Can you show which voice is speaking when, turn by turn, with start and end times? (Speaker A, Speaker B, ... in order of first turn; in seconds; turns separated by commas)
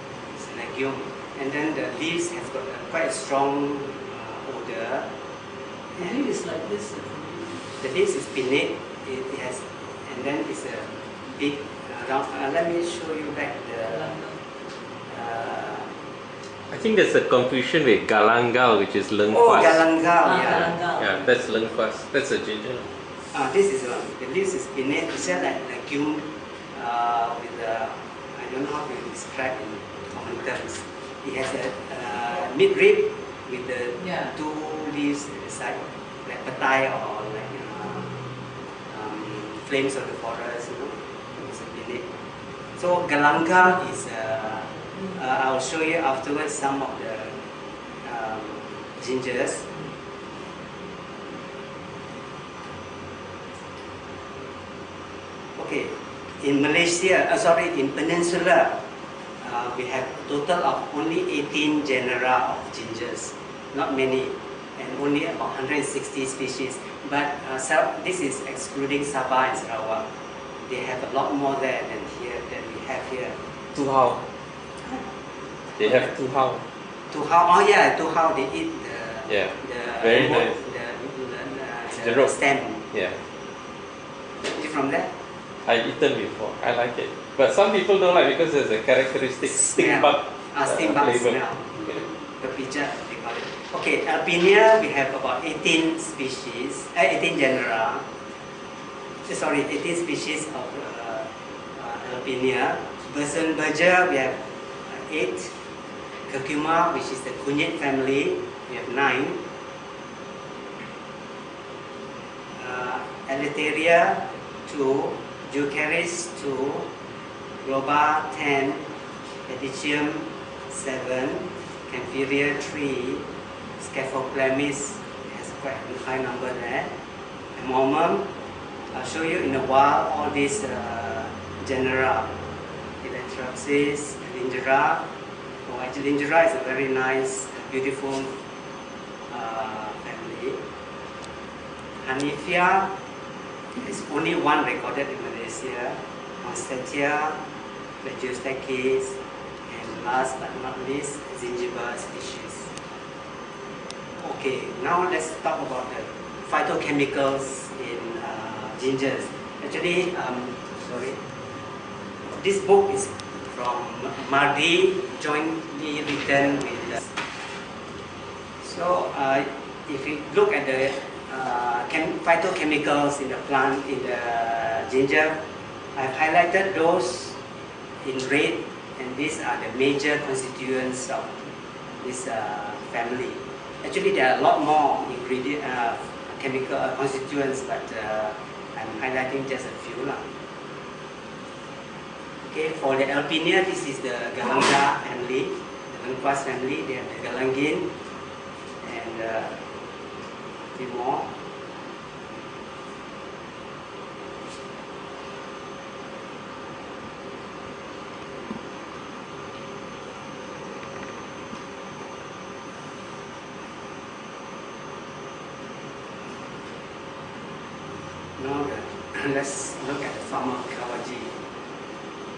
Speaker A: 0.3-5.1, Speaker B: 6.0-7.6, Speaker A: 7.8-14.1, Speaker B: 13.8-14.4, Speaker A: 15.1-15.9, Speaker C: 16.7-19.8, Speaker A: 19.3-20.7, Speaker B: 20.2-21.2, Speaker C: 20.9-22.9, Speaker A: 23.3-38.1, Speaker B: 34.0-34.3, Speaker A: 38.9-42.0, Speaker A: 42.8-47.4, Speaker A: 48.0-49.6, Speaker A: 55.5-58.8, Speaker A: 59.4-70.0, Speaker A: 70.6-73.4, Speaker C: 73.7-74.2, Speaker C: 75.8-76.6, Speaker A: 75.8-76.1, Speaker A: 77.1-82.8, Speaker C: 79.3-80.5, Speaker C: 82.0-82.3, Speaker C: 82.9-83.2, Speaker A: 84.4-85.1, Speaker C: 85.6-92.0, Speaker A: 89.5-91.7, Speaker A: 92.3-98.0, Speaker A: 99.3-105.5, Speaker A: 106.3-109.4, Speaker A: 112.5-116.9, Speaker A: 117.6-118.8, Speaker A: 119.5-123.2, Speaker A: 123.8-126.9, Speaker A: 127.5-128.3, Speaker A: 128.9-132.3, Speaker A: 133.0-135.0, Speaker A: 135.7-138.3, Speaker A: 139.3-140.6, Speaker A: 142.0-142.9, Speaker A: 143.8-147.4, Speaker A: 148.0-149.2, Speaker A: 149.7-152.7, Speaker A: 154.2-161.2, Speaker A: 162.2-167.1, Speaker A: 168.6-175.4, Speaker A: 175.9-177.3, Speaker A: 178.0-190.2, Speaker A: 192.4-197.9, Speaker A: 198.8-199.6, Speaker A: 200.7-201.3, Speaker A: 218.4-221.4